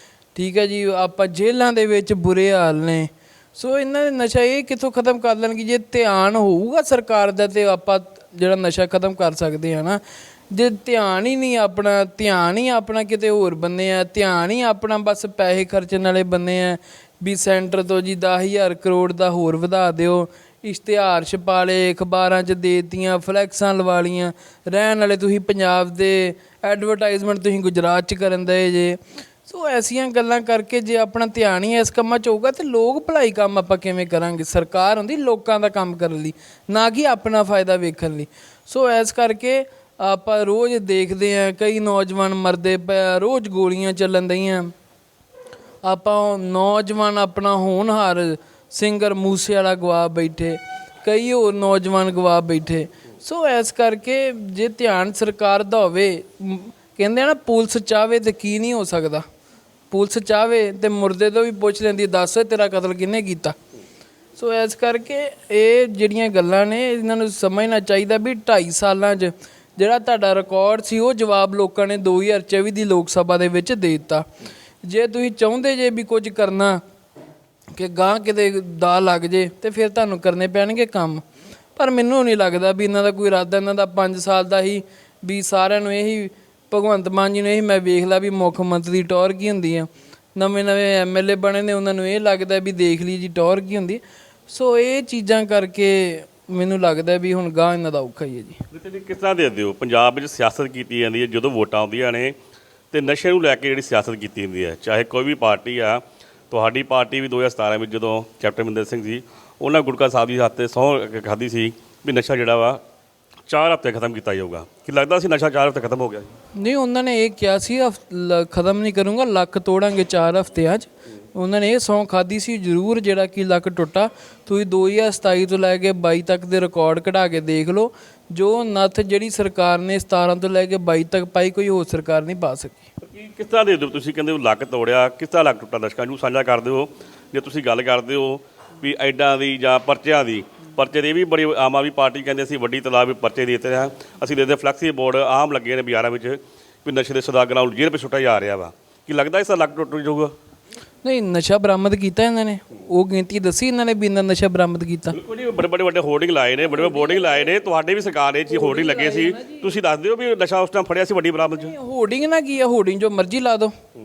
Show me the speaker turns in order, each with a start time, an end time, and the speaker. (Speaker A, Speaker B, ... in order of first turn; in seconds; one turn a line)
Speaker A: 0.3-44.7
Speaker A: 45.8-59.2
Speaker A: 59.9-63.5
Speaker A: 64.3-74.2
Speaker A: 74.8-76.8
Speaker A: 77.7-81.2
Speaker A: 81.8-98.6
Speaker B: 98.7-102.3
Speaker B: 102.9-112.8
Speaker B: 113.5-116.3
Speaker A: 116.6-132.9
Speaker B: 133.0-150.3
Speaker A: 151.0-155.2
Speaker B: 155.1-161.7
Speaker A: 156.7-157.5
Speaker A: 158.5-159.7
Speaker A: 161.5-163.7